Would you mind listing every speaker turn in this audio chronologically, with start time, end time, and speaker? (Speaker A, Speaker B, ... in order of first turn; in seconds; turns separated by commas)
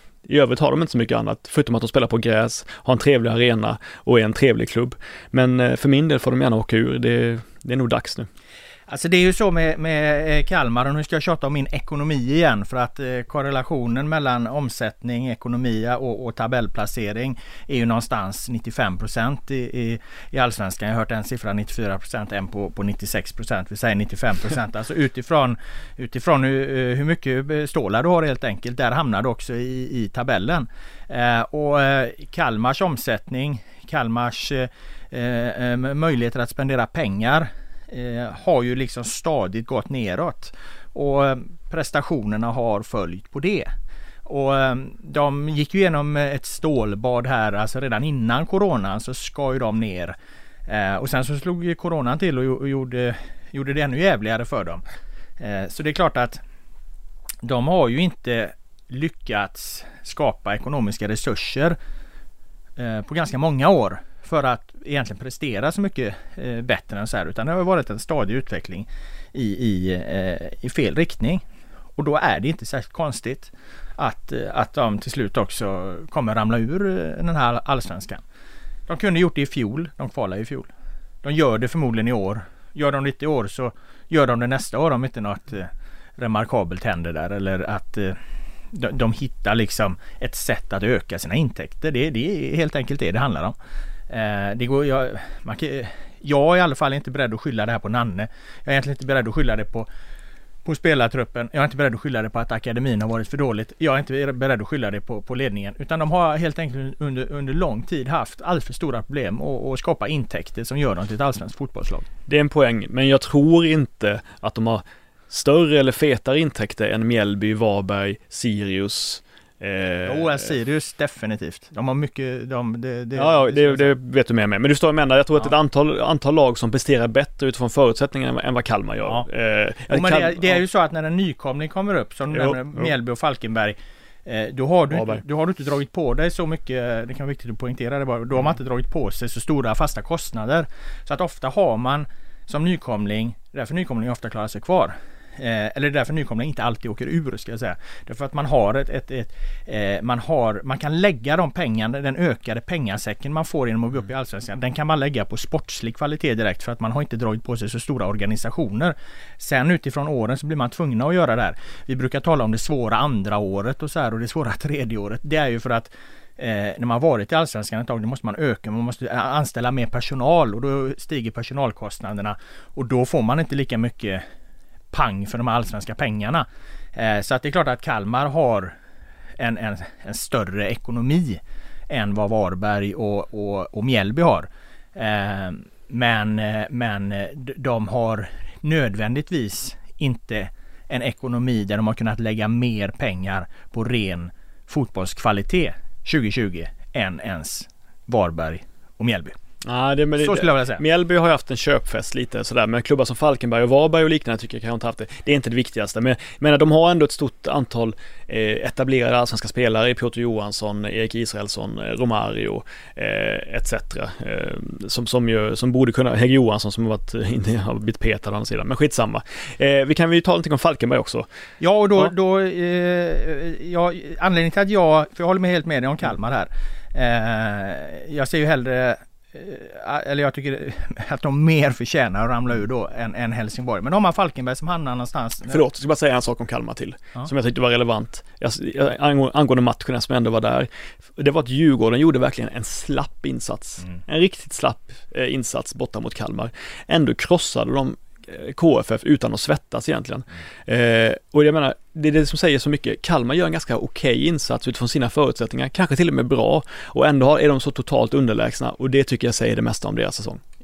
Speaker A: 0.3-8.3, Speaker B: 8.9-43.7, Speaker B: 44.2-50.1, Speaker B: 50.7-54.8, Speaker B: 55.4-56.4, Speaker B: 57.4-61.8, Speaker B: 62.8-71.4, Speaker B: 72.0-78.2, Speaker B: 78.9-80.7, Speaker B: 81.2-88.2, Speaker B: 88.7-93.5, Speaker B: 94.1-99.9, Speaker B: 100.6-112.1, Speaker A: 112.3-120.4, Speaker B: 120.0-123.9, Speaker A: 123.2-130.6, Speaker B: 129.9-174.2, Speaker A: 132.3-132.9, Speaker A: 134.9-135.2, Speaker B: 174.9-178.8, Speaker B: 179.4-199.3, Speaker A: 199.6-221.2, Speaker B: 200.2-200.8, Speaker B: 221.6-235.6, Speaker A: 235.5-260.4